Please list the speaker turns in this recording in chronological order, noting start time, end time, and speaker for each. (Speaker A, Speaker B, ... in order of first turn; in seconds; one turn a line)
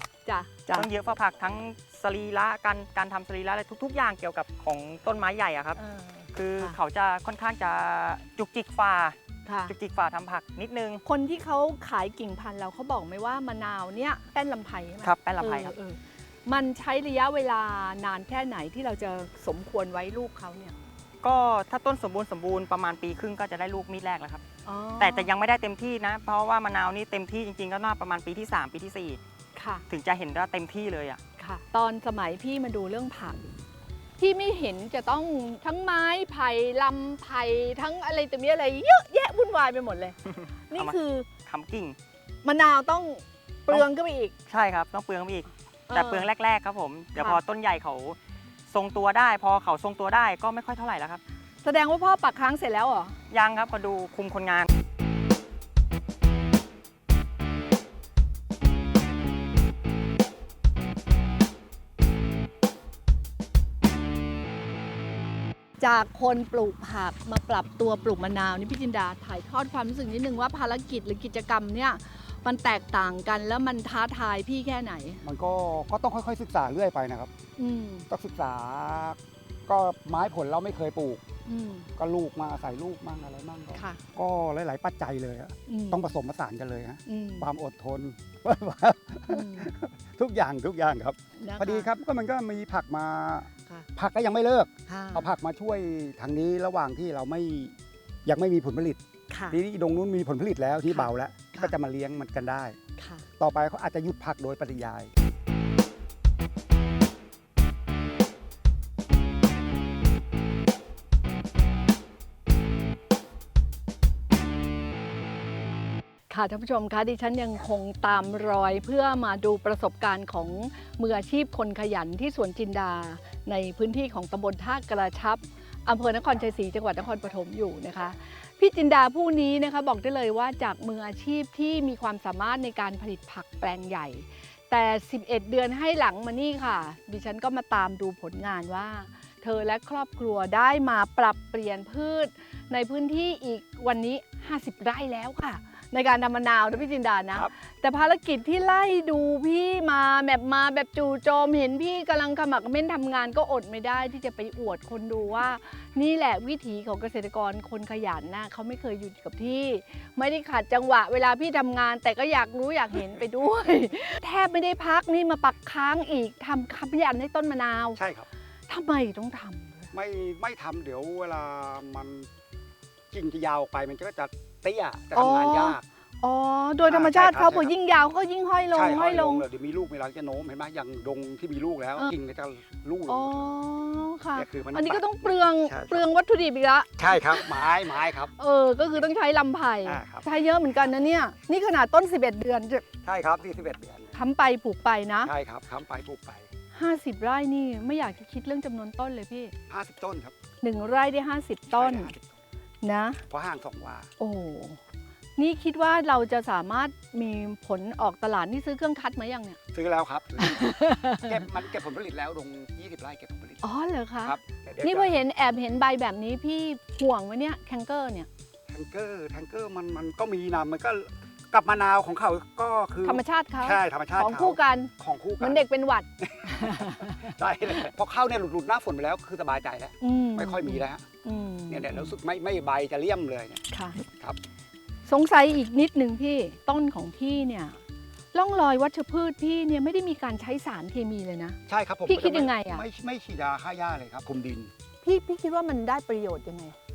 Speaker A: 0.2-0.9
Speaker B: 0.7-5.8
Speaker A: 5.8-6.8
Speaker B: 6.3-9.2
Speaker A: 9.4-9.7
Speaker B: 9.7-11.0
Speaker A: 11.0-20.8
Speaker B: 15.0-15.7
Speaker B: 21.2-24.4
Speaker A: 24.6-25.3
Speaker B: 25.0-29.2
Speaker A: 29.5-29.8
Speaker B: 29.9-31.2
Speaker A: 31.4-33.5
Speaker A: 34.2-40.1
Speaker B: 40.3-42.0
Speaker A: 40.7-41.3
Speaker A: 42.4-44.3
Speaker B: 44.5-48.2
Speaker A: 45.9-46.3
Speaker B: 48.7-51.2
Speaker A: 51.6-53.1
Speaker B: 53.3-54.7
Speaker A: 65.8-75.2
Speaker C: 75.2-77.3
Speaker A: 77.6-78.1
Speaker C: 78.1-81.2
Speaker A: 81.5-81.9
Speaker C: 82.0-97.7
Speaker A: 83.7-84.0
Speaker A: 85.7-86.0
Speaker A: 87.0-87.5
Speaker A: 89.3-89.7
Speaker A: 91.4-91.9
Speaker A: 94.9-95.3
Speaker C: 98.2-102.8
Speaker A: 99.3-99.6
Speaker A: 100.9-101.7
Speaker A: 103.0-103.2
Speaker C: 103.4-105.1
Speaker A: 116.3-168.0
Speaker C: 167.9-168.3
Speaker A: 168.7-169.9
Speaker C: 169.9-172.3
Speaker C: 173.1-175.8
Speaker A: 175.1-179.4
Speaker C: 176.9-177.7
Speaker C: 178.7-183.5
Speaker A: 183.1-192.8
Speaker C: 184.3-186.0
Speaker C: 187.0-188.3
Speaker C: 189.8-190.2
Speaker C: 193.0-194.2
Speaker A: 194.1-195.3
Speaker C: 195.2-196.5
Speaker A: 196.7-199.5
Speaker C: 199.7-200.3
Speaker A: 200.6-202.1
Speaker C: 201.7-202.4
Speaker A: 202.8-203.2
Speaker C: 203.3-204.1
Speaker A: 204.2-204.8
Speaker A: 205.4-209.6
Speaker C: 209.7-213.7
Speaker A: 210.4-211.4
Speaker A: 213.6-218.3
Speaker C: 214.2-215.1
Speaker C: 218.7-225.6
Speaker A: 223.0-227.1
Speaker C: 226.2-231.1
Speaker A: 230.0-232.1
Speaker C: 231.7-234.4
Speaker A: 233.7-234.0
Speaker A: 235.1-237.8
Speaker A: 238.3-242.8
Speaker C: 241.7-244.7
Speaker A: 245.0-246.8